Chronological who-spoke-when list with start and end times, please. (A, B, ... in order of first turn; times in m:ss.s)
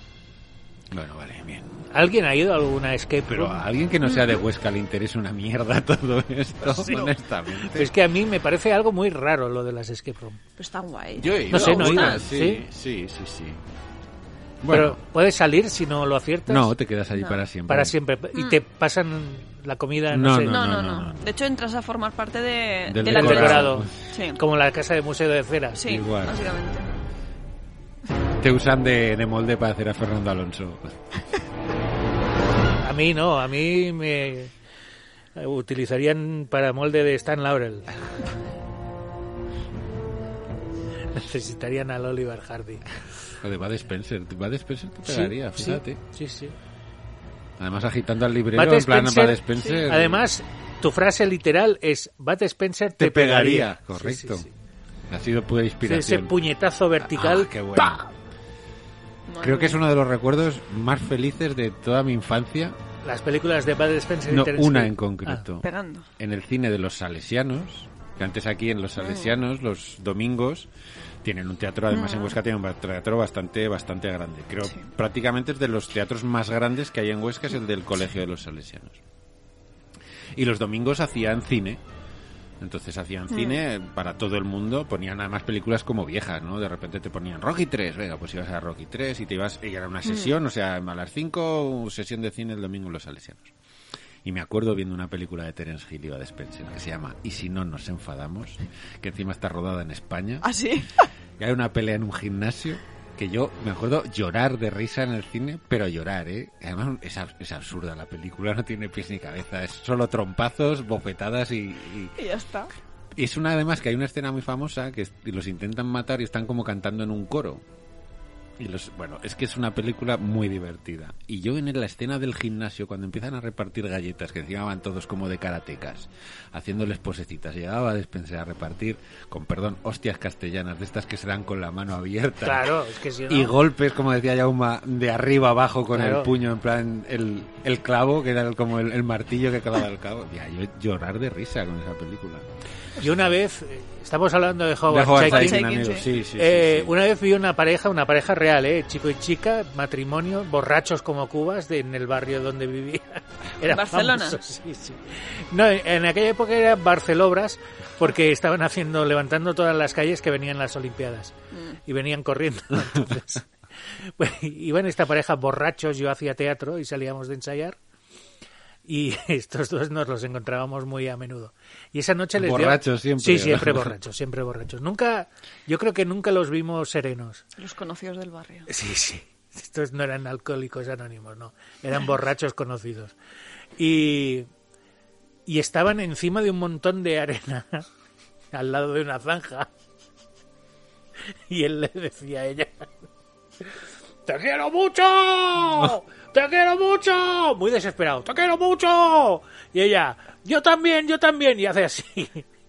0:00.9-0:01.9 A
0:01.9-0:03.6 B
0:03.3-0:07.9 A
0:04.0-0:04.3 C
0:06.6-0:10.4 B
0:10.6-0:12.2 C
0:11.2-0:13.6 A
0:11.5-0:12.6 B
0:14.6-0:15.0 A
0:14.7-0:16.8 B
0:16.5-0:17.9 A
0:17.1-0:17.4 C
0:17.7-0:20.6 B
0:18.3-0:18.6 C
0:20.1-0:21.2 A
0:20.5-0:24.4 C
0:22.9-0:23.9 A
0:23.0-0:25.8 B
0:25.8-0:26.8 C
0:25.8-0:26.4 A
0:28.4-0:31.0 A
0:32.8-0:34.5 B
0:35.4-0:37.9 B
0:41.1-0:43.0 B
0:43.4-0:46.0 A
0:45.0-0:46.5 B
0:47.6-0:50.3 A
0:48.5-0:54.5 B
0:53.0-0:54.5 A
0:55.1-0:56.3 A
0:55.8-0:58.1 B
0:57.0-0:58.0 A
0:59.3-0:59.8 C
0:59.4-1:02.8 A
1:03.0-1:05.4 B
1:04.3-1:05.7 A
1:05.6-1:06.1 C
1:06.2-1:10.7 A
1:09.0-1:09.4 C
1:11.2-1:19.0 A
1:11.9-1:12.4 C
1:20.4-1:21.8 A
1:22.6-1:33.5 A
1:23.3-1:23.6 C
1:30.0-1:30.3 C
1:34.2-1:40.5 A
1:40.4-1:41.1 C
1:41.4-1:52.1 A
1:52.2-1:52.7 C
1:53.1-1:57.6 A
1:58.6-2:12.7 A
2:12.4-2:13.5 B
2:13.3-2:22.4 A
2:15.9-2:16.3 B
2:23.0-2:41.3 B
2:24.9-2:26.9 A
2:25.2-2:26.0 C
2:33.6-2:34.4 C
2:41.9-2:43.5 B
2:44.0-2:47.8 B
2:48.8-2:57.4 B
2:52.4-2:53.9 A
2:57.6-2:58.7 C
2:58.7-3:03.1 B
3:03.8-3:04.5 B
3:05.5-3:07.8 B
3:08.5-3:09.7 B
3:11.5-3:12.9 B
3:14.2-3:22.4 B